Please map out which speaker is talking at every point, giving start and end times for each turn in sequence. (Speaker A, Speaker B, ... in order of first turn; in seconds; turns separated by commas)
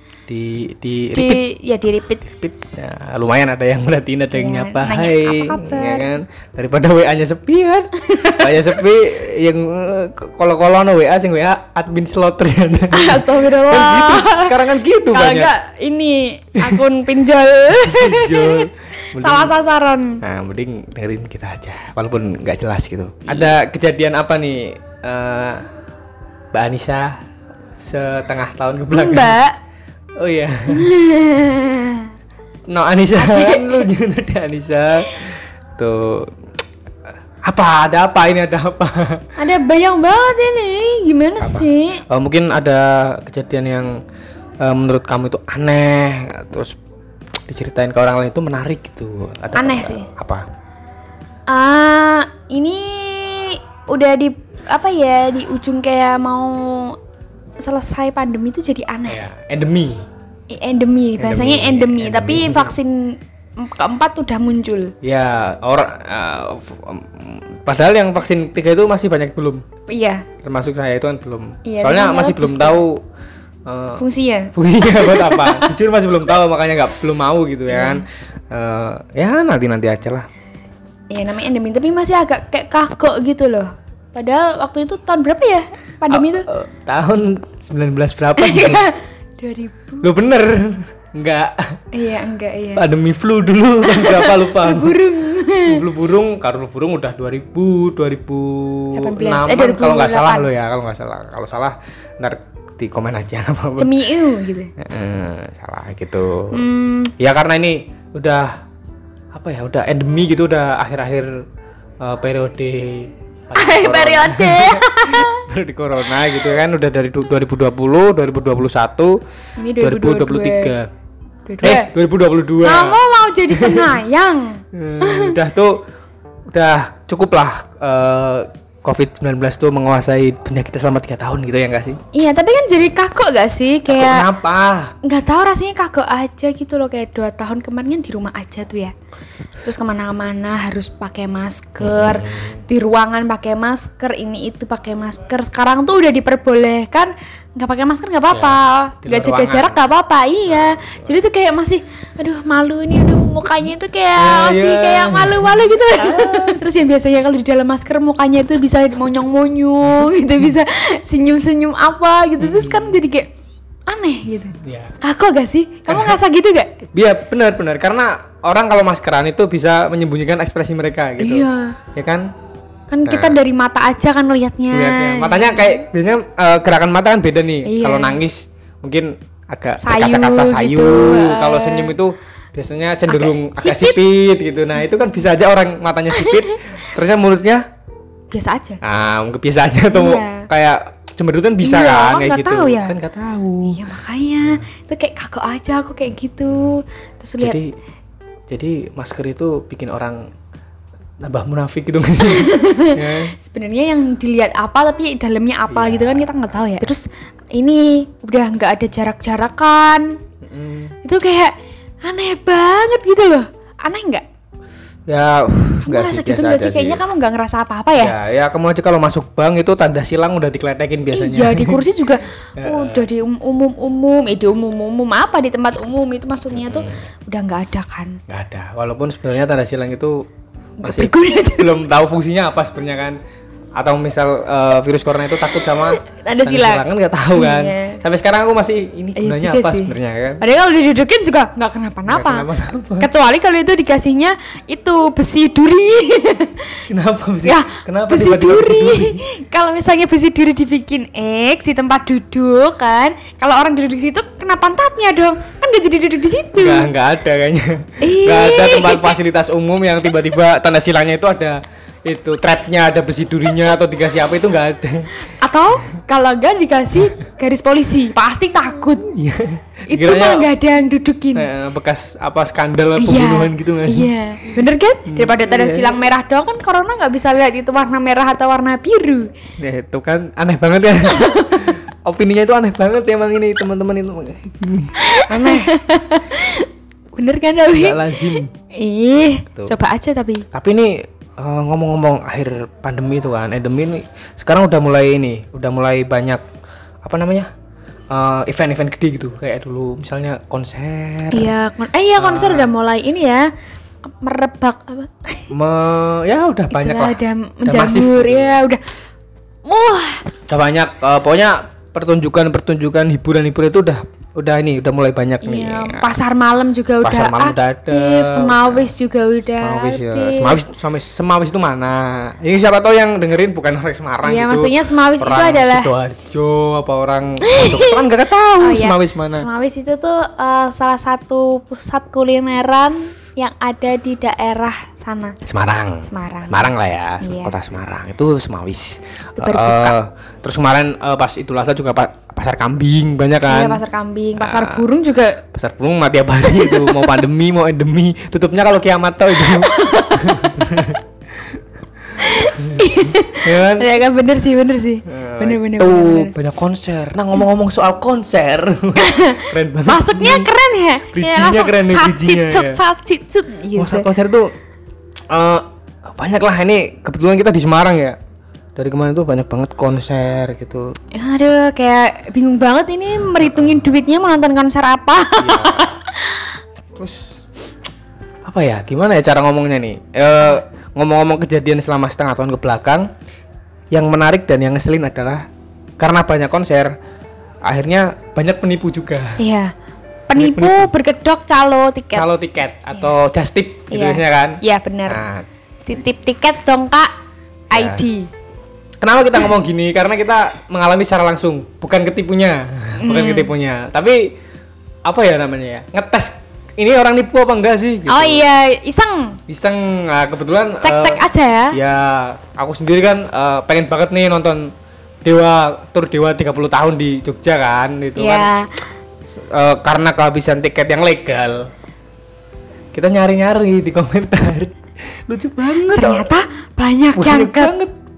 Speaker A: 0.3-1.4, Speaker B: 1.1-2.2, Speaker A: 2.2-15.5, Speaker B: 4.3-6.1, Speaker B: 8.0-8.8, Speaker B: 12.9-14.6, Speaker B: 15.1-20.2, Speaker A: 16.6-16.8, Speaker A: 17.7-19.5, Speaker A: 20.2-25.6, Speaker A: 26.5-27.2, Speaker A: 27.8-29.4, Speaker B: 28.9-29.6, Speaker A: 30.2-30.9, Speaker B: 30.7-32.1, Speaker A: 32.7-36.3, Speaker B: 33.2-33.9, Speaker A: 37.5-39.2, Speaker B: 39.4-42.0, Speaker A: 41.4-43.9, Speaker A: 44.6-46.8, Speaker A: 47.5-50.4, Speaker B: 49.5-50.1, Speaker B: 51.5-57.0, Speaker B: 57.6-59.2, Speaker A: 59.1-60.0, Speaker B: 60.5-64.9, Speaker A: 61.2-62.7, Speaker A: 65.0-69.6, Speaker B: 69.9-70.3, Speaker A: 70.4-73.0, Speaker B: 71.7-72.8, Speaker A: 73.7-80.3, Speaker B: 74.0-75.7, Speaker B: 77.7-78.0, Speaker B: 81.1-86.5, Speaker A: 86.1-88.8, Speaker B: 88.4-90.1, Speaker A: 90.0-91.8, Speaker B: 91.9-92.8, Speaker A: 92.8-95.0, Speaker B: 93.8-95.8, Speaker A: 95.6-103.9, Speaker B: 99.0-100.5, Speaker B: 103.8-104.7, Speaker A: 104.8-106.6, Speaker B: 106.5-107.1, Speaker A: 107.2-108.5, Speaker A: 109.3-111.4, Speaker A: 112.0-119.2, Speaker B: 113.5-115.4, Speaker B: 119.6-120.7, Speaker A: 119.8-120.9, Speaker B: 121.5-121.9, Speaker A: 121.6-123.0, Speaker B: 122.6-125.4, Speaker A: 123.5-124.0, Speaker A: 124.7-125.8, Speaker A: 126.5-132.0, Speaker B: 132.1-134.3, Speaker A: 133.9-134.9, Speaker B: 135.0-138.9, Speaker B: 139.6-163.3, Speaker A: 141.8-142.6, Speaker A: 148.3-149.8, Speaker A: 150.5-151.2, Speaker A: 154.2-156.7, Speaker A: 162.4-163.0, Speaker B: 163.9-166.7, Speaker A: 164.6-164.9, Speaker A: 165.9-166.2, Speaker A: 166.9-172.3, Speaker B: 171.2-171.8, Speaker B: 172.9-175.8, Speaker A: 173.1-173.4, Speaker A: 174.7-187.7, Speaker B: 177.7-178.2, Speaker B: 179.8-182.0, Speaker B: 183.1-184.0, Speaker B: 186.1-186.9, Speaker B: 188.3-188.8, Speaker A: 188.8-193.8, Speaker B: 189.9-190.5, Speaker B: 191.6-192.9, Speaker B: 193.7-197.6, Speaker A: 197.4-197.6, Speaker A: 198.5-200.2, Speaker A: 201.2-203.3, Speaker B: 202.2-207.0, Speaker A: 205.7-206.9, Speaker B: 207.6-210.2, Speaker A: 210.4-210.9, Speaker B: 211.0-211.5, Speaker B: 212.0-214.2, Speaker A: 215.1-217.0, Speaker B: 215.9-218.1, Speaker A: 218.0-221.8, Speaker B: 221.1-228.2, Speaker A: 222.6-223.1, Speaker A: 226.6-227.0, Speaker A: 228.3-230.3, Speaker B: 230.8-231.8, Speaker A: 230.8-233.2, Speaker A: 233.8-240.4, Speaker B: 235.5-238.0, Speaker B: 239.2-246.8, Speaker A: 242.1-243.1, Speaker A: 246.9-249.2, Speaker B: 247.4-256.9, Speaker A: 256.6-265.2, Speaker B: 258.0-259.2, Speaker B: 265.3-269.1, Speaker A: 269.0-270.5, Speaker B: 269.9-271.5, Speaker A: 271.4-274.5, Speaker B: 273.0-279.3, Speaker A: 275.1-276.0, Speaker A: 279.6-285.7, Speaker B: 281.1-281.7, Speaker B: 285.0-290.5, Speaker A: 287.7-288.5, Speaker A: 290.5-296.4, Speaker A: 297.0-297.5, Speaker A: 298.1-301.5, Speaker B: 301.3-303.5, Speaker A: 302.2-302.7, Speaker B: 304.1-305.5, Speaker A: 305.5-308.6, Speaker B: 306.7-308.8, Speaker B: 309.6-310.2, Speaker A: 310.5-316.1, Speaker B: 315.4-320.6, Speaker A: 317.0-318.9, Speaker A: 319.6-329.5, Speaker B: 324.2-325.9, Speaker B: 327.4-328.0, Speaker B: 328.6-335.4, Speaker A: 335.4-343.8, Speaker B: 336.1-336.7, Speaker B: 337.2-337.6, Speaker B: 339.4-339.9, Speaker B: 343.5-345.4, Speaker A: 344.4-344.9, Speaker A: 345.5-353.9, Speaker B: 346.4-347.2, Speaker B: 349.4-350.8, Speaker B: 352.2-356.3, Speaker A: 355.1-360.5, Speaker B: 359.0-364.1, Speaker A: 361.1-362.8, Speaker A: 363.8-364.5, Speaker A: 365.3-368.2, Speaker A: 368.8-370.9, Speaker B: 371.1-376.5, Speaker A: 373.4-373.8, Speaker A: 375.4-375.9, Speaker A: 376.9-377.3, Speaker A: 378.4-383.1, Speaker A: 383.9-385.4, Speaker A: 386.0-386.9, Speaker A: 387.7-389.4, Speaker B: 389.4-389.7, Speaker B: 390.3-392.3, Speaker A: 390.4-390.9, Speaker A: 392.1-395.5, Speaker B: 393.9-395.2, Speaker B: 395.9-397.1, Speaker B: 397.7-398.3, Speaker A: 397.7-398.0, Speaker A: 399.0-404.4, Speaker B: 403.0-403.5, Speaker A: 405.1-408.4, Speaker B: 408.1-409.4, Speaker A: 409.5-414.7, Speaker B: 410.8-411.8, Speaker A: 415.2-418.5, Speaker B: 418.2-418.8, Speaker A: 419.3-421.7, Speaker A: 422.9-424.8, Speaker A: 425.3-426.3, Speaker B: 425.9-427.7, Speaker A: 427.1-427.9